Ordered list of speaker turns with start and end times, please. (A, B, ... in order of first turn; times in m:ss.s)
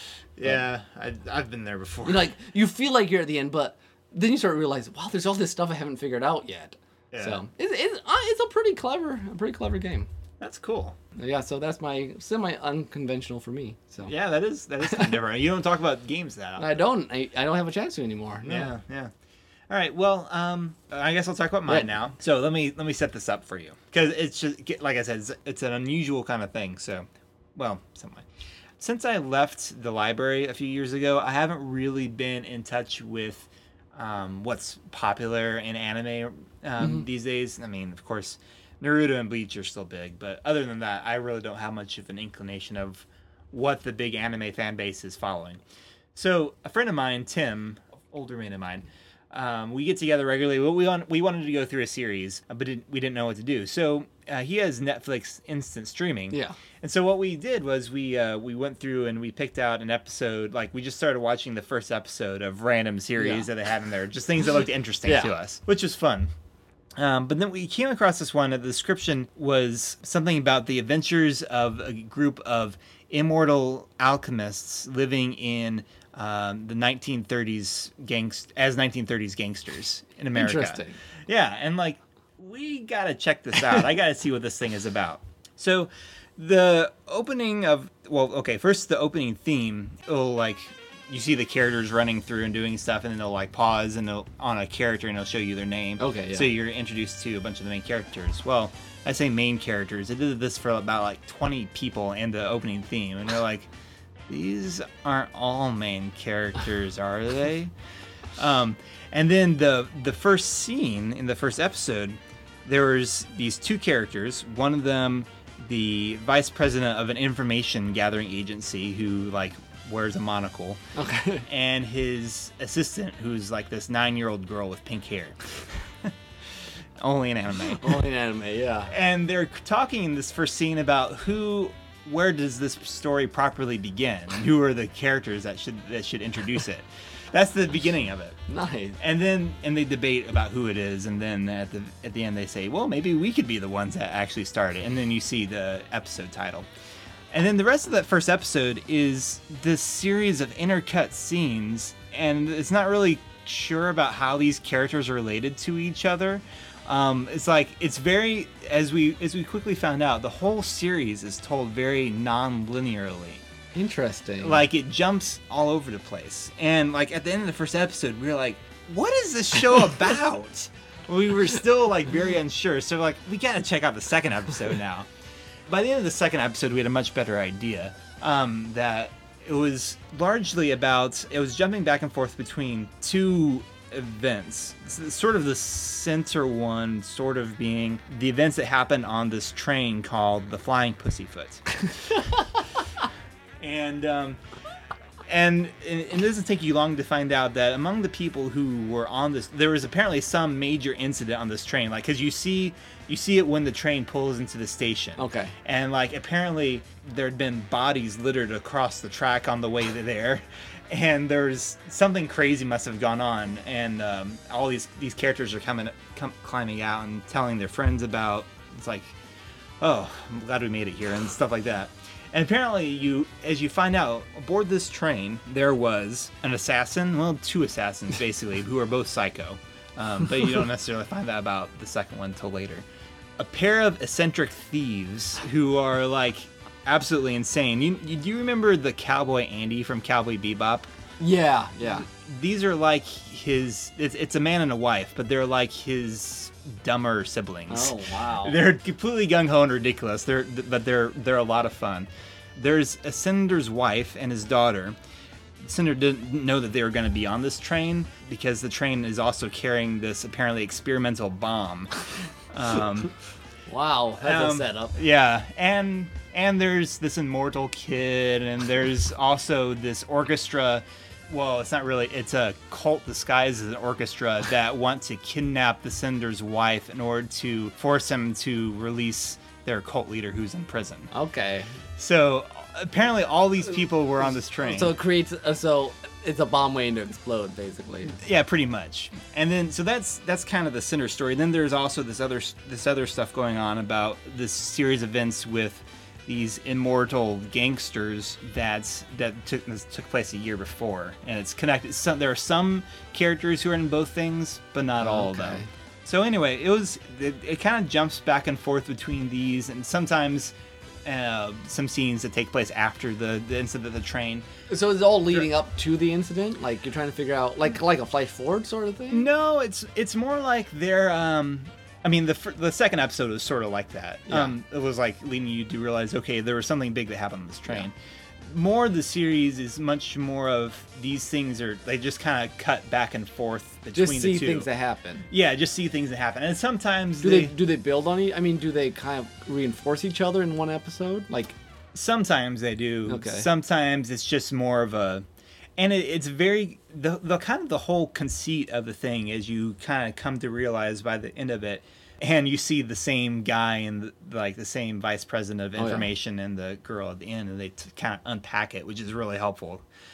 0:00.4-0:02.3 A
0:02.0-0:10.1 B
0:07.1-0:07.4 A
0:10.4-0:11.0 A
0:11.2-0:14.1 B
0:14.0-0:16.7 A
0:14.8-0:15.1 B
0:16.6-0:18.7 B
0:18.4-0:19.1 A
0:19.7-0:28.2 A
0:28.8-0:45.6 A
0:36.8-0:37.0 B
0:46.1-1:06.3 A
0:56.3-0:56.6 B
1:03.2-1:03.5 B
1:05.0-1:05.3 B
1:07.0-1:43.7 A
1:20.3-1:21.0 B
1:36.0-1:36.5 B
1:44.3-1:47.7 A
1:48.4-2:00.8 A
2:00.9-2:01.4 B
2:01.5-2:05.5 A
2:07.0-2:08.0 A
2:07.8-2:08.9 B
2:08.9-2:18.4 A
2:18.5-2:19.0 B
2:19.0-2:26.7 A
2:27.3-2:43.4 A
2:43.7-2:44.6 B
2:44.4-2:55.1 A
2:55.7-3:11.6 A
3:13.6-3:14.4 A
3:15.3-3:39.2 A
3:25.2-3:25.5 B
3:39.8-3:52.8 A
3:53.4-4:00.9 A
4:01.2-4:02.1 B
4:01.9-4:15.0 A
4:07.7-4:08.6 B
4:15.6-4:23.1 A
4:23.7-4:24.9 B
4:24.2-4:41.1 A
4:41.1-4:41.8 B
4:42.0-4:44.9 A
4:44.6-4:48.2 B
4:48.1-5:10.5 A
5:05.0-5:05.7 B
5:11.0-5:14.5 A
5:14.7-5:19.2 B
5:19.1-5:27.9 A
5:28.4-5:34.7 A
5:33.9-5:35.2 B
5:35.3-5:37.6 A
5:37.2-5:41.6 B
5:41.9-5:45.2 A
5:43.0-5:43.5 B
5:45.8-5:59.8 A
5:55.8-5:56.1 B